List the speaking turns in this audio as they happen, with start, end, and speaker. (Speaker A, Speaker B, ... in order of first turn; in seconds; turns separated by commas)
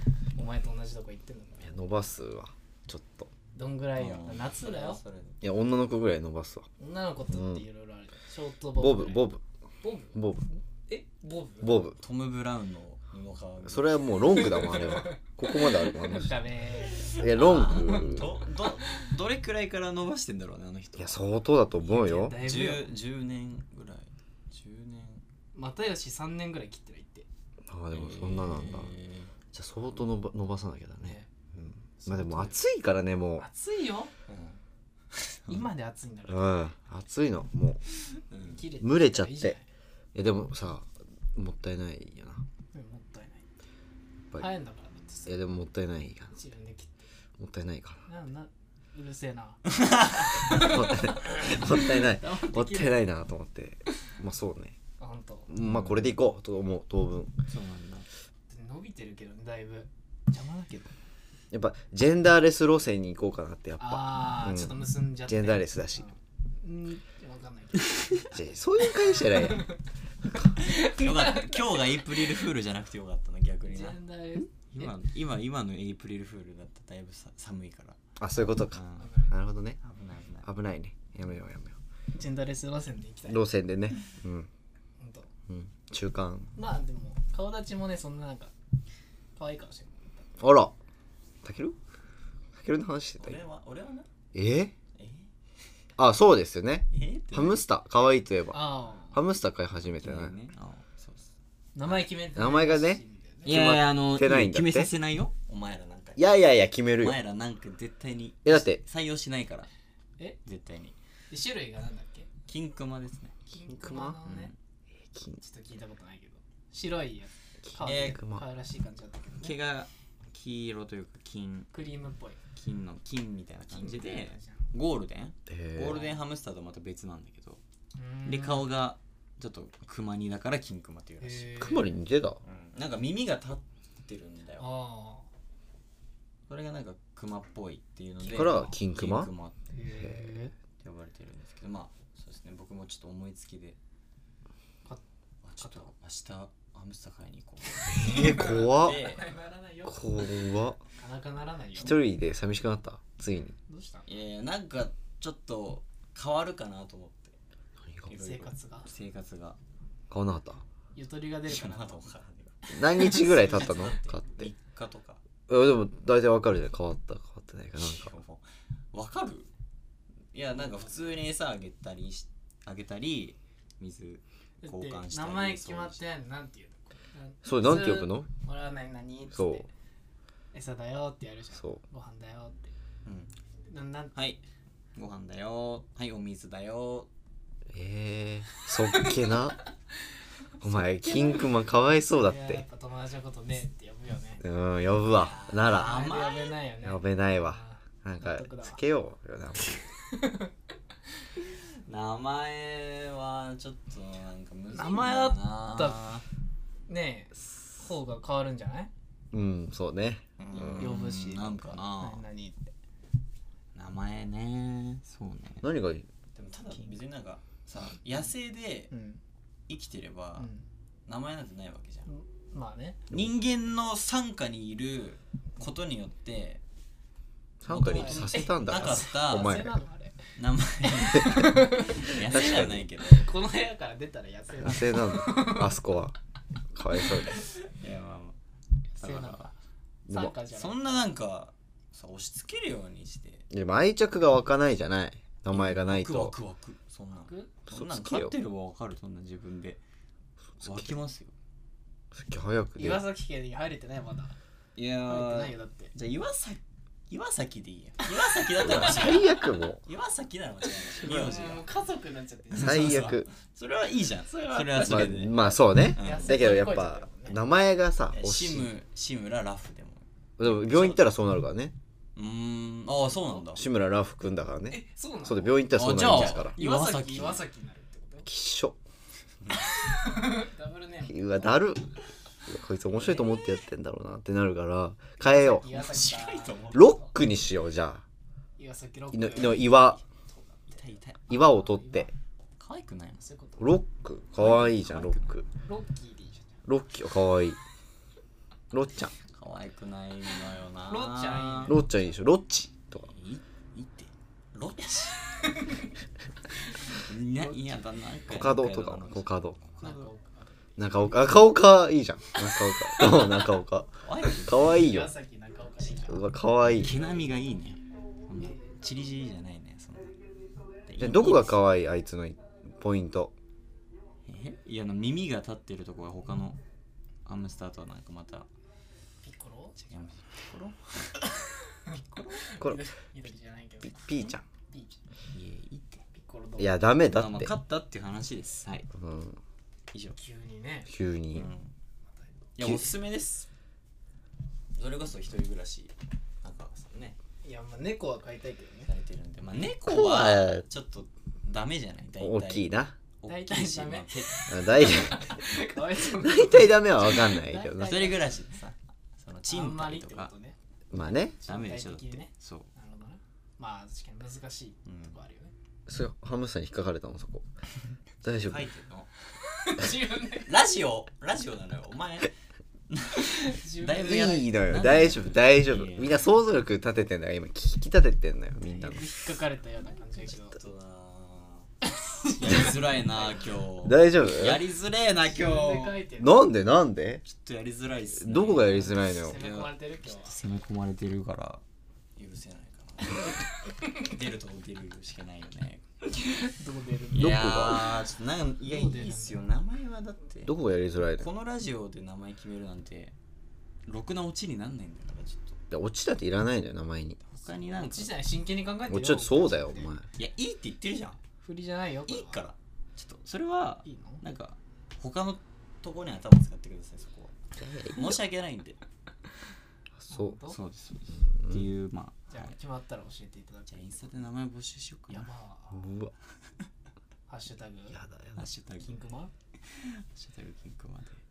Speaker A: 0.3-1.8, Speaker B: 1.6-3.3, Speaker A: 3.5-5.0, Speaker C: 4.0-5.4, Speaker B: 5.4-6.7, Speaker A: 6.8-9.3, Speaker B: 7.3-7.6, Speaker B: 8.8-9.4, Speaker A: 9.8-10.2, Speaker B: 10.1-10.5, Speaker A: 10.9-11.7, Speaker B: 11.6-12.0, Speaker C: 12.0-14.2, Speaker B: 13.6-16.3, Speaker A: 14.5-18.3, Speaker C: 17.1-21.2, Speaker B: 17.1-18.3, Speaker B: 20.9-22.4, Speaker A: 21.8-22.9, Speaker C: 22.4-25.2, Speaker A: 25.5-27.3, Speaker B: 27.7-28.9, Speaker C: 27.9-29.3, Speaker B: 29.5-33.4, Speaker A: 32.0-32.6, Speaker A: 33.4-34.1, Speaker C: 34.3-34.6, Speaker C: 35.1-35.5, Speaker A: 35.5-36.7, Speaker B: 36.3-37.8, Speaker C: 38.3-38.6, Speaker A: 38.5-39.6, Speaker B: 38.8-39.6, Speaker B: 40.1-42.4, Speaker A: 42.7-43.4, Speaker A: 44.4-45.4, Speaker B: 45.3-46.3, Speaker A: 46.3-47.0, Speaker B: 47.4-48.0, Speaker A: 48.0-53.0, Speaker C: 49.7-50.8, Speaker B: 50.4-54.8, Speaker A: 55.0-55.5, Speaker B: 55.5-57.3, Speaker C: 55.6-56.1, Speaker C: 57.5-58.1, Speaker A: 58.5-60.9, Speaker B: 61.5-66.1, Speaker A: 63.8-68.3, Speaker B: 68.2-69.7, Speaker A: 69.2-69.8, Speaker B: 70.3-70.5, Speaker A: 70.6-71.7, Speaker C: 70.6-74.0, Speaker A: 73.7-74.9, Speaker C: 74.7-78.0, Speaker B: 78.2-79.8, Speaker C: 78.7-79.1, Speaker A: 79.0-79.3, Speaker C: 79.8-80.5, Speaker B: 80.4-81.8, Speaker A: 82.1-83.4, Speaker B: 83.3-84.5, Speaker A: 85.0-85.3, Speaker B: 85.5-86.5, Speaker A: 86.5-88.5, Speaker A: 89.3-90.4, Speaker B: 90.4-90.7, Speaker B: 91.4-91.8, Speaker B: 92.5-93.4, Speaker C: 93.2-94.1, Speaker B: 94.3-94.7, Speaker C: 94.9-95.3, Speaker B: 96.0-100.3, Speaker C: 96.9-97.6, Speaker A: 98.5-99.2, Speaker C: 99.9-101.3, Speaker A: 101.7-103.5, Speaker B: 102.3-104.9, Speaker C: 103.4-106.3, Speaker B: 106.2-107.2, Speaker C: 107.0-109.7, Speaker B: 108.4-108.8, Speaker C: 110.4-111.0, Speaker A: 111.3-112.3, Speaker C: 112.5-113.3, Speaker A: 113.5-114.5, Speaker B: 113.5-114.2, Speaker C: 114.2-114.5, Speaker B: 115.1-115.4, Speaker A: 115.4-119.6, Speaker B: 117.6-118.4, Speaker C: 117.8-118.2, Speaker C: 119.4-121.7, Speaker A: 121.7-122.4, Speaker C: 122.5-127.6, Speaker A: 123.7-124.7, Speaker B: 125.5-126.0, Speaker A: 125.9-126.1, Speaker A: 128.0-128.7, Speaker C: 128.2-131.6, Speaker A: 131.2-131.9, Speaker B: 131.6-132.4, Speaker C: 132.4-134.7, Speaker A: 134.6-135.3, Speaker C: 136.5-139.6, Speaker A: 138.2-138.8, Speaker B: 138.3-139.3, Speaker A: 139.7-140.5, Speaker B: 139.9-140.3, Speaker C: 140.8-143.8, Speaker C: 145.4-149.2, Speaker A: 145.6-145.9, Speaker B: 147.9-149.0, Speaker A: 147.9-150.3, Speaker B: 149.8-150.8, Speaker A: 150.9-152.0, Speaker B: 151.8-153.6, Speaker A: 153.7-154.1, Speaker C: 154.1-157.3, Speaker B: 157.8-158.1, Speaker A: 158.1-158.9, Speaker C: 158.1-159.6, Speaker B: 160.1-160.6, Speaker A: 160.9-162.1, Speaker C: 161.4-165.2, Speaker A: 162.7-164.2, Speaker B: 162.7-164.5, Speaker B: 165.5-168.2, Speaker C: 167.8-169.5, Speaker C: 170.3-176.0, Speaker A: 174.6-179.7, Speaker B: 177.4-178.3, Speaker B: 179.3-179.7, Speaker A: 180.5-182.7, Speaker B: 181.6-181.8, Speaker C: 183.0-183.3, Speaker A: 183.7-184.2, Speaker C: 184.1-184.4, Speaker C: 184.9-187.1, Speaker B: 187.7-189.6, Speaker B: 190.6-192.6, Speaker A: 190.7-191.5, Speaker A: 192.2-194.4, Speaker B: 194.4-196.1, Speaker A: 195.2-198.8, Speaker C: 195.2-196.5, Speaker B: 196.8-199.8, Speaker A: 200.0-200.5, Speaker C: 201.8-206.2, Speaker A: 204.7-206.0, Speaker A: 206.9-208.9, Speaker B: 209.3-211.0, Speaker C: 210.4-212.2, Speaker A: 210.7-212.7, Speaker C: 213.7-215.6, Speaker B: 215.6-216.1, Speaker C: 216.3-218.9, Speaker A: 218.9-219.2, Speaker C: 219.7-220.5, Speaker A: 220.4-220.6, Speaker C: 221.1-222.1, Speaker A: 222.1-223.0, Speaker C: 223.1-226.6, Speaker B: 227.6-229.7, Speaker C: 227.7-229.7, Speaker A: 227.8-230.3, Speaker C: 230.3-233.3, Speaker A: 230.8-235.7, Speaker B: 232.2-232.9, Speaker B: 234.6-236.2, Speaker B: 236.7-237.4, Speaker C: 237.6-238.3, Speaker A: 239.0-239.5, Speaker C: 239.0-239.5, Speaker B: 240.1-240.3, Speaker A: 240.1-241.0, Speaker C: 240.3-243.4, Speaker B: 243.5-246.3, Speaker C: 245.5-249.8, Speaker A: 247.3-247.5, Speaker B: 247.7-248.3, Speaker B: 250.6-251.0, Speaker C: 250.6-251.3, Speaker B: 252.1-253.0, Speaker A: 252.8-254.3, Speaker C: 254.8-261.7, Speaker A: 255.0-255.9, Speaker B: 258.6-259.8, Speaker A: 258.8-259.1, Speaker A: 261.0-263.2, Speaker C: 262.5-265.4, Speaker B: 262.6-263.3, Speaker A: 264.3-267.4, Speaker B: 264.8-268.7, Speaker C: 265.9-266.4, Speaker C: 268.1-271.0, Speaker B: 270.4-271.7, Speaker C: 272.1-273.7, Speaker B: 273.5-276.6, Speaker A: 274.7-278.3, Speaker C: 275.7-277.4, Speaker B: 278.2-278.8, Speaker C: 279.4-279.7, Speaker A: 279.7-281.6, Speaker B: 281.1-281.9, Speaker B: 282.5-285.7, Speaker A: 283.1-283.4, Speaker A: 285.2-287.1, Speaker C: 285.7-286.9, Speaker B: 286.7-288.0, Speaker A: 288.6-292.1, Speaker B: 289.1-290.0, Speaker C: 290.7-291.4, Speaker B: 291.3-292.1, Speaker C: 292.6-293.3, Speaker A: 293.2-293.7, Speaker B: 293.6-295.5, Speaker C: 294.4-295.3, Speaker A: 295.6-296.6, Speaker B: 296.6-297.6, Speaker B: 298.7-299.1, Speaker C: 299.3-301.8, Speaker A: 300.9-301.9, Speaker B: 301.6-303.1, Speaker C: 303.0-305.3, Speaker A: 305.5-305.8, Speaker C: 306.9-310.1, Speaker A: 307.4-307.7, Speaker B: 308.3-309.6, Speaker A: 309.8-311.2, Speaker B: 310.8-315.1, Speaker C: 314.0-314.9, Speaker A: 314.6-316.2, Speaker B: 316.0-316.9, Speaker C: 316.7-320.2, Speaker A: 317.0-317.4, Speaker A: 318.4-318.8, Speaker C: 320.9-321.6, Speaker B: 321.0-323.3, Speaker C: 324.2-326.6, Speaker C: 327.2-328.5, Speaker A: 329.2-329.8, Speaker C: 329.8-331.1, Speaker A: 331.5-335.0, Speaker C: 331.9-332.6, Speaker B: 333.8-334.4, Speaker C: 335.3-336.0, Speaker A: 336.1-336.7, Speaker B: 336.6-337.5, Speaker C: 337.1-338.9, Speaker B: 338.9-339.4, Speaker A: 340.1-340.9, Speaker B: 340.9-341.5, Speaker C: 341.3-341.7, Speaker C: 342.6-343.5, Speaker C: 344.7-347.2, Speaker A: 347.4-348.9, Speaker C: 348.9-355.1, Speaker B: 349.8-350.6, Speaker B: 352.2-352.9, Speaker A: 353.2-358.4, Speaker B: 354.5-355.3, Speaker B: 356.1-358.0, Speaker C: 357.8-360.3, Speaker A: 359.5-365.5, Speaker B: 360.9-361.4, Speaker C: 361.4-362.7, Speaker C: 364.9-365.1, Speaker B: 365.9-367.5, Speaker B: 368.2-368.7, Speaker C: 368.4-369.1, Speaker A: 369.4-370.5, Speaker C: 370.2-372.3, Speaker C: 372.9-376.2, Speaker A: 373.4-374.5, Speaker B: 374.0-379.1, Speaker A: 378.6-380.6, Speaker C: 380.2-381.7, Speaker A: 381.8-382.9, Speaker C: 382.3-386.0, Speaker B: 383.8-384.6, Speaker A: 385.2-386.4, Speaker B: 386.2-387.2, Speaker C: 387.2-391.6, Speaker B: 388.2-389.4, Speaker A: 388.8-390.4, Speaker C: 392.1-395.8, Speaker A: 396.1-397.4, Speaker C: 397.1-400.5, Speaker B: 397.1-397.9, Speaker A: 398.7-399.5, Speaker B: 400.4-401.3, Speaker C: 401.2-403.1, Speaker C: 403.9-405.6, Speaker B: 405.7-407.2, Speaker C: 407.3-408.1, Speaker A: 407.7-409.9, Speaker B: 408.9-410.0, Speaker C: 410.2-411.2, Speaker A: 411.4-412.4, Speaker C: 412.1-417.3, Speaker A: 413.8-414.2, Speaker B: 417.6-418.2, Speaker C: 417.9-418.8, Speaker B: 419.9-420.4, Speaker A: 420.1-420.6, Speaker C: 420.5-422.5, Speaker B: 421.2-421.7, Speaker A: 422.3-424.1, Speaker C: 423.7-425.3, Speaker A: 425.1-425.9, Speaker B: 425.7-426.1, Speaker A: 427.3-428.0, Speaker B: 427.9-428.4, Speaker C: 428.4-428.9, Speaker A: 428.8-429.3, Speaker C: 429.7-431.2